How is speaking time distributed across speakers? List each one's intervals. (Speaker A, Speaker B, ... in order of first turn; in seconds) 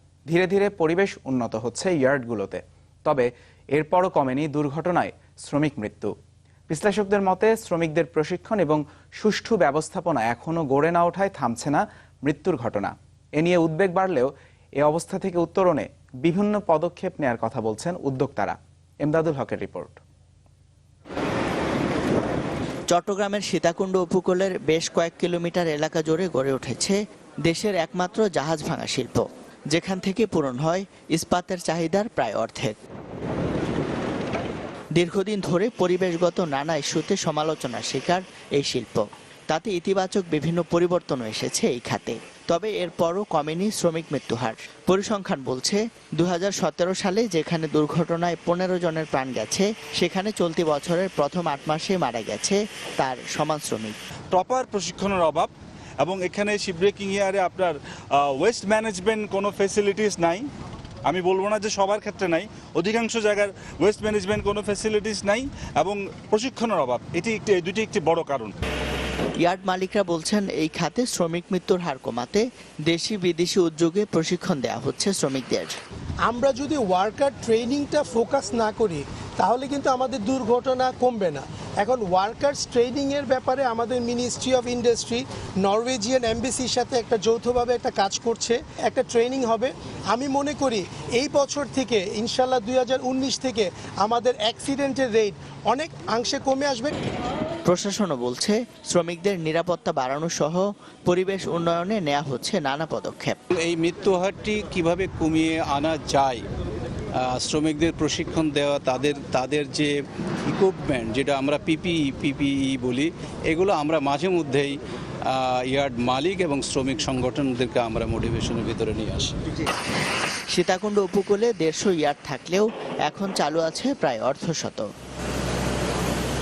Speaker A: 0.3-6.1, 6.7-14.3, 14.8-20.0
Speaker B: 22.9-32.8, 34.9-54.0, 69.4-75.7, 97.7-103.4, 120.5-124.9
Speaker C: 54.3-60.5, 61.1-68.5
Speaker D: 76.2-97.0
Speaker E: 103.5-106.4, 107.2-109.9, 110.5-114.7, 115.3-119.3